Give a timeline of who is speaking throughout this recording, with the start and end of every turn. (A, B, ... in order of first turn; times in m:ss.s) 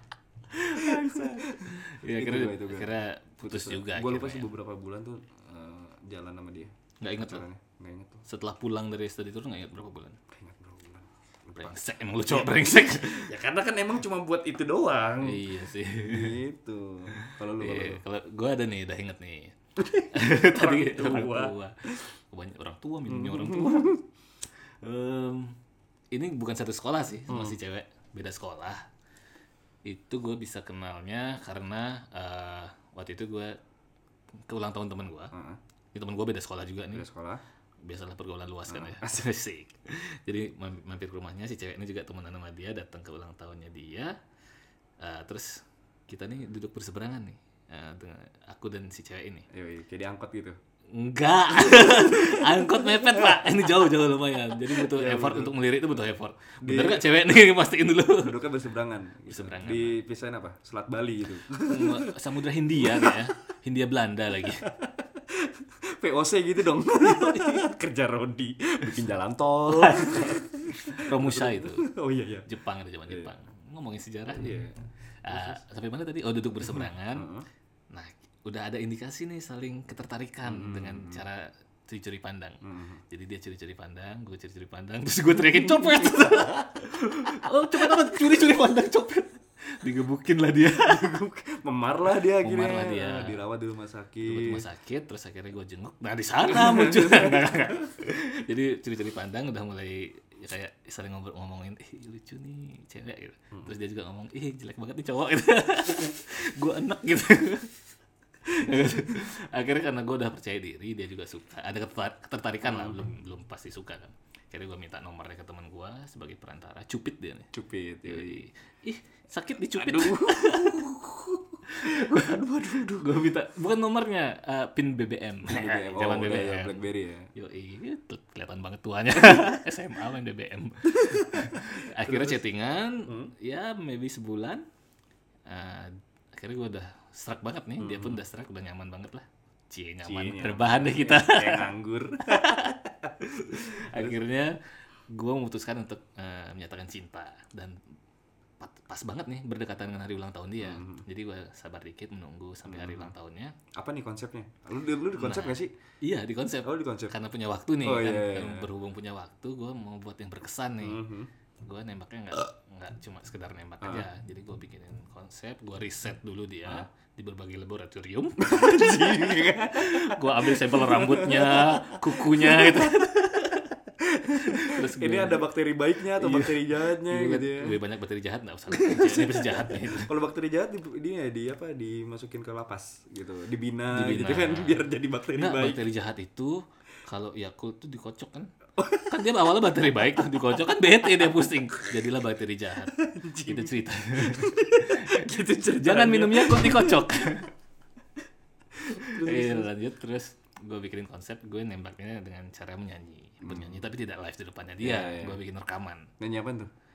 0:00.5-0:04.5 A
0:00.7-0:08.2 B
0:07.0-0:07.4 A
0:08.2-0:10.2 A
0:10.3-0:15.5 B
0:11.6-0:13.3 A
0:15.2-0:16.4 A
0:16.0-0:18.0 B
0:17.1-0:24.0 A
0:19.8-0:21.6 B
0:23.1-0:24.0 B
0:24.8-0:25.6 A
0:26.1-0:28.9 A
0:27.3-0:27.6 B
0:29.8-0:33.6 A
0:34.5-0:35.3 A
0:35.3-0:35.6 B
0:35.9-0:37.0 A
0:36.9-0:37.4 B
0:37.8-0:44.2 A
0:38.7-0:39.2 B
0:45.0-0:49.5 A
0:49.5-0:50.6 B
0:50.9-0:58.4 A
0:51.6-0:53.5 B
0:54.6-0:55.5 B
0:56.6-0:57.1 B
0:58.2-1:02.2 B
0:59.3-1:00.0 A
1:01.6-1:04.7 A
1:02.8-1:03.3 B
1:04.6-1:12.5 B
1:07.0-1:07.7 A
1:09.7-1:11.9 A
1:12.4-1:14.6 A
1:14.3-1:14.8 B
1:15.2-1:17.3 A
1:15.3-1:15.6 B
1:16.6-1:17.5 B
1:17.9-1:31.2 A
1:20.4-1:21.2 B
1:22.6-1:23.0 B
1:25.5-1:26.6 B
1:27.2-1:28.2 B
1:30.7-1:34.6 B
1:32.1-1:33.4 A
1:34.2-1:47.7 A
1:36.4-1:37.6 B
1:48.5-1:57.5 A
1:52.6-1:53.0 B
1:57.5-1:58.4 B
1:58.0-2:01.0 A
1:59.8-2:03.2 B
2:01.7-2:14.6 A
2:05.5-2:07.3 B
2:11.0-2:12.4 B
2:13.0-2:13.3 B
2:15.5-2:21.7 A
2:17.8-2:18.2 B
2:20.0-2:22.6 B
2:22.2-2:24.6 A
2:23.5-2:24.2 B
2:25.1-2:27.8 A
2:28.6-2:33.6 A
2:30.6-2:31.0 B
2:32.6-2:33.1 B
2:33.7-2:35.7 B
2:35.1-2:41.0 A
2:36.6-2:37.1 B
2:37.8-2:38.7 B
2:40.8-2:41.3 B
2:41.6-2:53.6 A
2:43.8-2:44.1 B
2:48.4-2:57.8 B
2:54.4-2:55.5 A
2:56.1-3:00.1 A
2:58.7-3:05.8 B
3:03.9-3:17.5 A
3:08.8-3:09.1 B
3:12.9-3:17.4 B
3:18.8-3:26.1 A
3:18.8-3:19.7 B
3:23.4-3:23.8 B
3:24.8-3:25.4 B
3:26.2-3:26.7 B